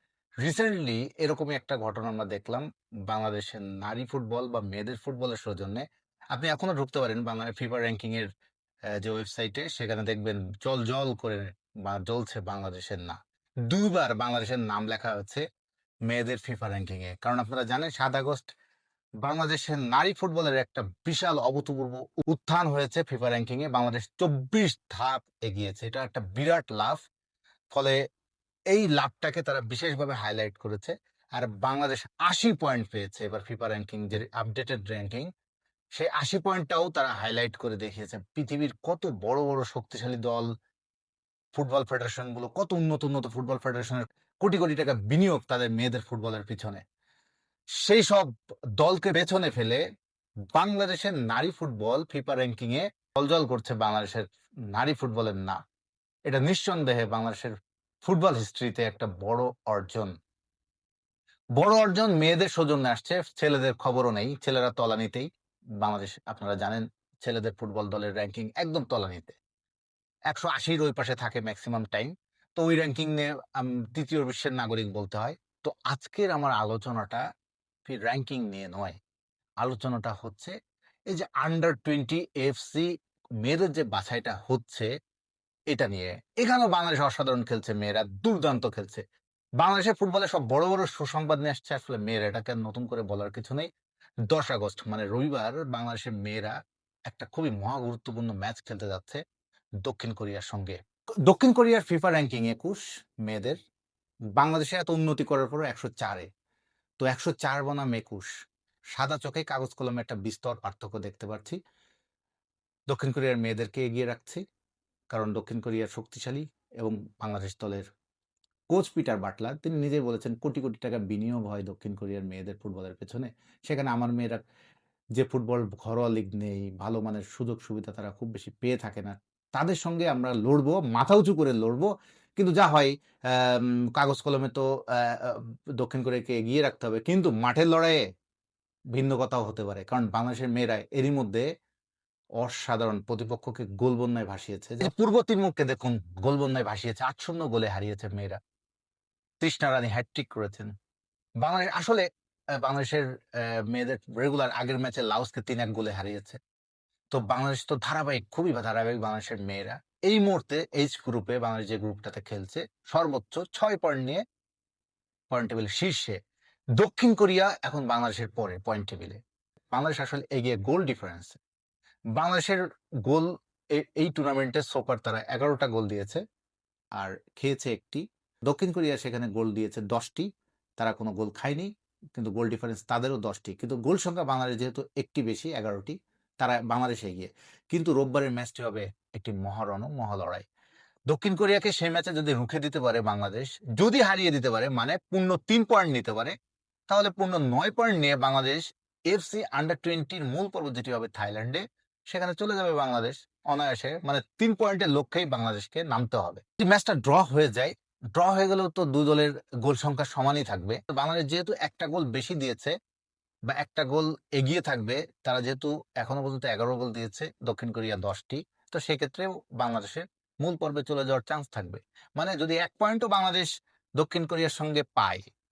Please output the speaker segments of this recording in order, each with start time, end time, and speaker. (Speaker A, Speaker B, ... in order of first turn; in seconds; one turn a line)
Speaker A: 0.4-8.3
Speaker A: 9.0-13.2
Speaker A: 13.7-15.4
Speaker A: 16.1-18.5
Speaker A: 19.2-27.0
Speaker A: 27.7-28.0
Speaker A: 28.7-35.3
Speaker A: 35.9-40.5
Speaker A: 41.5-46.8
Speaker A: 47.8-49.8
Speaker A: 50.5-55.6
Speaker A: 56.3-57.5
Speaker A: 58.0-60.1
Speaker A: 61.6-65.3
Speaker A: 65.8-69.4
Speaker A: 70.3-77.2
Speaker A: 77.8-79.0
Speaker A: 79.6-80.5
Speaker A: 81.1-82.9
Speaker A: 83.4-84.9
Speaker A: 85.7-89.0
Speaker A: 89.6-93.7
Speaker A: 94.3-96.5
Speaker A: 97.1-99.2
Speaker A: 99.8-103.6
Speaker A: 104.4-106.3
Speaker A: 107.0-108.3
Speaker A: 109.0-111.6
Speaker A: 112.9-114.4
Speaker A: 115.1-117.9
Speaker A: 118.7-124.4
Speaker A: 125.2-138.0
Speaker A: 138.9-141.5
Speaker A: 142.4-148.4
Speaker A: 149.4-150.7
Speaker A: 151.4-152.1
Speaker A: 152.6-156.4
Speaker A: 157.1-164.2
Speaker A: 165.3-166.2
Speaker A: 166.8-169.2
Speaker A: 169.7-171.4
Speaker A: 172.2-176.2
Speaker A: 177.0-190.4
Speaker A: 191.1-196.3
Speaker A: 196.9-212.8
Speaker A: 213.5-225.3